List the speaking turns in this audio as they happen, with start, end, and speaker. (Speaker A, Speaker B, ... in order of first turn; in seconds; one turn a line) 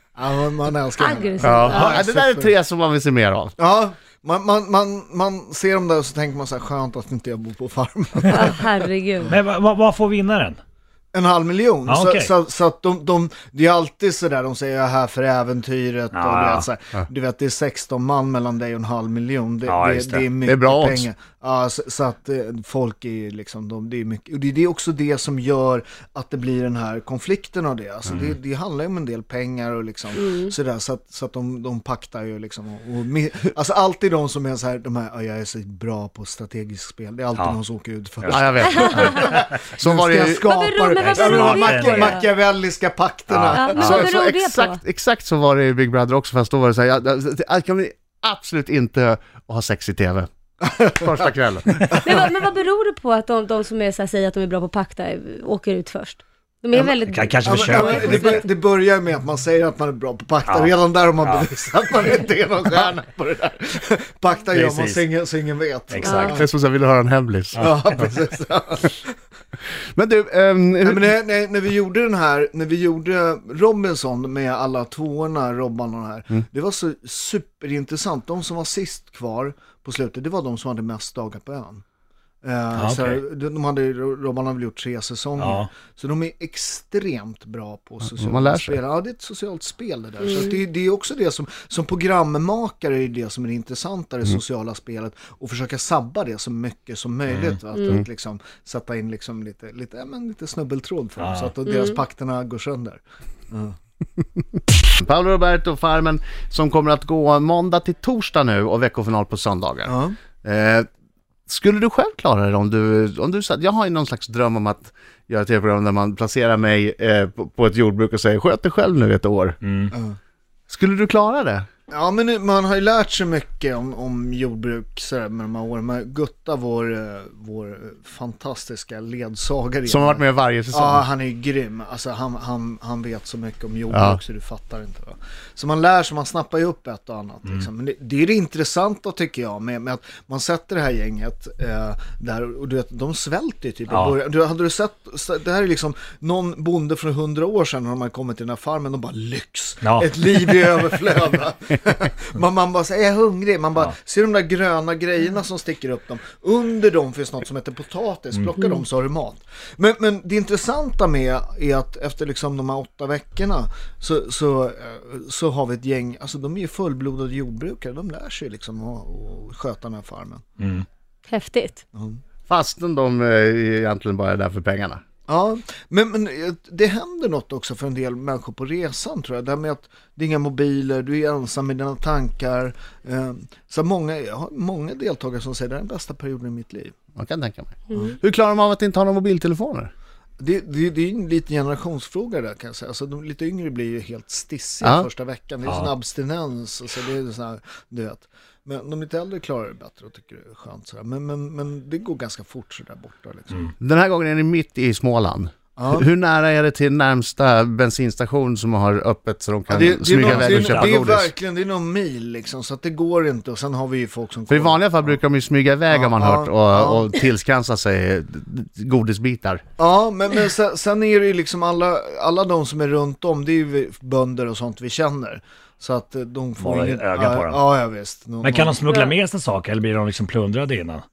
Speaker A: 0.1-2.5
Speaker B: 1.0-1.9
Speaker C: 1.4-3.5
Speaker A: 3.6-8.8
Speaker B: 8.3-9.3
Speaker D: 9.3-10.6
Speaker A: 11.1-44.1
Speaker D: 11.9-12.3
Speaker D: 16.1-16.6
Speaker D: 19.6-20.3
Speaker C: 20.4-21.1
Speaker B: 30.2-30.5
Speaker D: 38.2-38.5
Speaker C: 38.3-40.5
Speaker B: 38.7-39.3
Speaker B: 40.5-42.2
Speaker D: 41.0-42.2
Speaker D: 43.3-44.1
Speaker B: 43.5-44.8
Speaker C: 43.8-50.3
Speaker A: 50.6-51.3
Speaker C: 50.9-52.0
Speaker A: 51.9-52.2
Speaker B: 52.0-58.4
Speaker A: 56.7-66.4
Speaker D: 57.1-58.4
Speaker D: 60.5-61.5
Speaker D: 64.5-65.0
Speaker D: 65.9-66.4
Speaker C: 66.3-67.6
Speaker D: 67.5-67.8
Speaker A: 67.5-69.1
Speaker C: 69.9-71.1
Speaker A: 70.8-81.8
Speaker A: 82.4-103.7
Speaker D: 82.8-83.2
Speaker D: 85.4-85.7
Speaker C: 88.0-88.8
Speaker D: 97.3-97.6
Speaker D: 101.2-101.5
Speaker C: 105.0-110.9
Speaker A: 109.8-110.2
Speaker C: 111.5-119.6
Speaker D: 119.6-119.9
Speaker A: 119.9-120.2
Speaker C: 120.7-121.7
Speaker A: 121.9-170.4
Speaker C: 129.8-131.0
Speaker C: 133.9-134.2
Speaker D: 143.9-144.2
Speaker D: 149.8-150.3
Speaker D: 170.6-170.8
Speaker B: 171.3-171.8
Speaker A: 171.9-172.2
Speaker C: 172.5-175.0
Speaker A: 175.3-186.9
Speaker C: 187.2-189.9
Speaker A: 190.4-203.7
Speaker C: 194.8-195.1
Speaker C: 203.8-211.3
Speaker A: 205.8-206.1
Speaker A: 209.7-215.2
Speaker D: 210.2-211.0
Speaker C: 214.5-219.6
Speaker A: 215.9-217.1
Speaker A: 219.8-228.8
Speaker D: 226.6-227.7
Speaker D: 228.4-231.0